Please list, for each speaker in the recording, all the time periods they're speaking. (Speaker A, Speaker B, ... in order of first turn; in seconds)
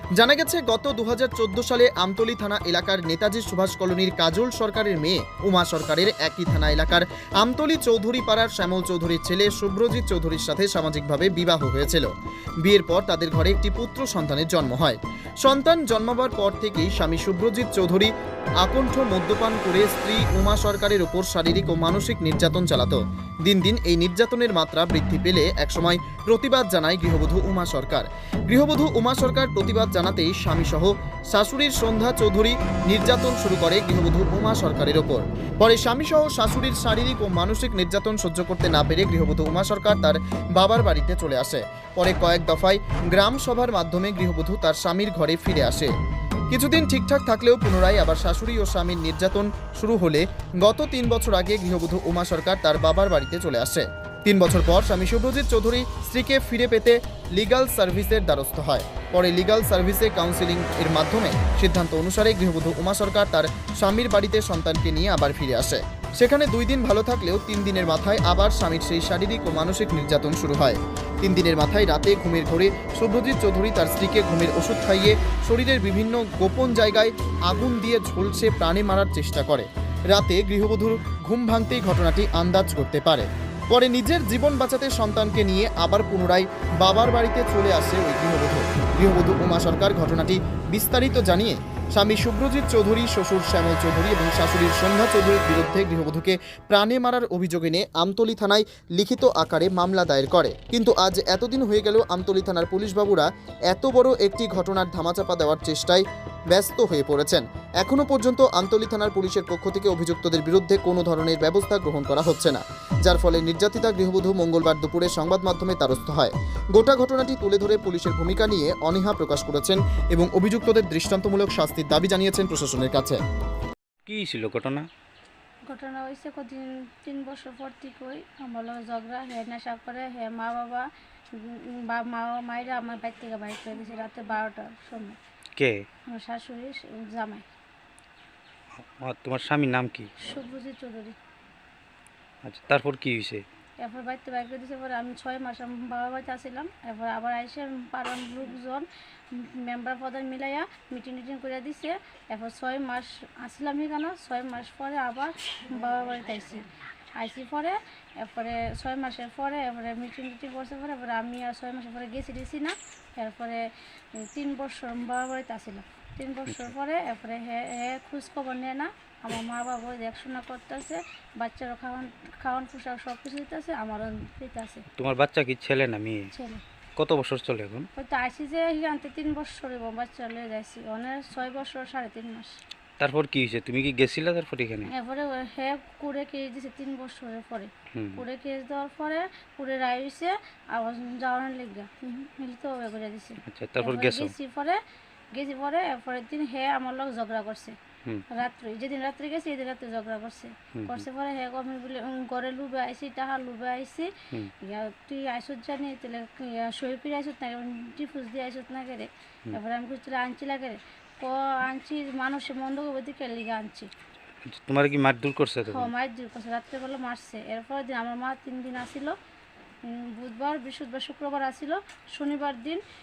Speaker A: 0.2-12.1, 12.6-45.9, 46.5-123.2
Speaker B: 124.0-124.9, 135.6-135.8, 138.8-140.1, 142.4-143.4, 175.0-176.3, 177.0-177.9, 183.0-184.9, 187.9-188.2, 193.4-194.3, 200.8-201.0, 214.4-215.9
Speaker C: 125.7-135.2, 136.1-137.5, 140.2-141.2, 143.8-174.8, 176.3-176.6, 178.0-182.6, 184.9-194.8, 195.3-197.8, 198.3-204.1, 204.6-213.9, 215.7-219.2, 219.8-222.8